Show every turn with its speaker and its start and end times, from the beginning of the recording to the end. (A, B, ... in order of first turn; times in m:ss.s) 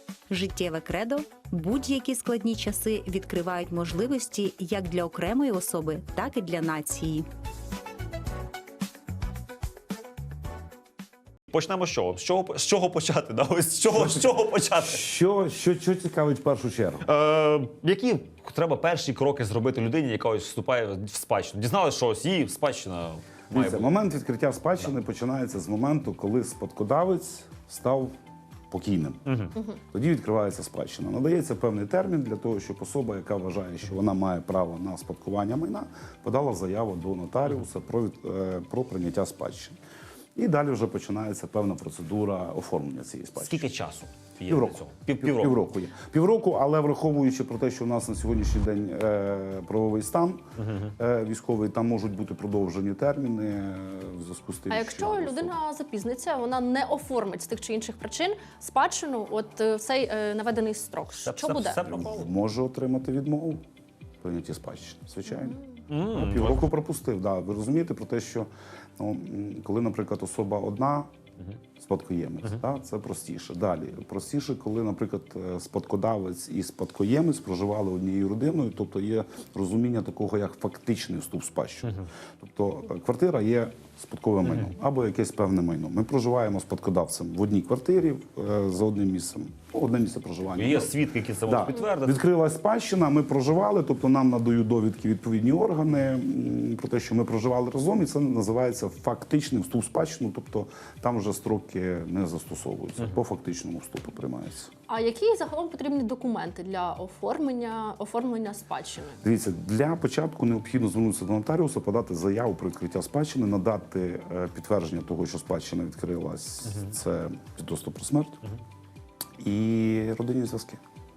0:00.3-0:07.3 A
0:11.5-0:15.0 B
0:13.9-0:17.0 C
0:17.0-0:23.9 B
0:23.5-0:28.1 C
0:28.7-0:29.2 C
0:29.3-0:29.6 B
0:29.9-0:39.8 C
0:40.4-0:43.7 C
0:43.4-0:45.6 B
0:44.5-0:50.4 C
0:50.6-0:50.9 B
0:51.0-0:55.6 C
0:54.7-1:01.8 D
1:01.2-1:02.3 B
1:01.8-1:03.6 C
1:04.2-1:05.6 C
1:05.9-1:06.6 B
1:06.1-1:11.1 C
1:11.8-1:30.9 C
1:30.5-1:32.2 B
1:31.5-1:44.7 C
1:44.9-1:49.2 D
1:49.2-1:58.4 C
1:59.4-2:00.8 C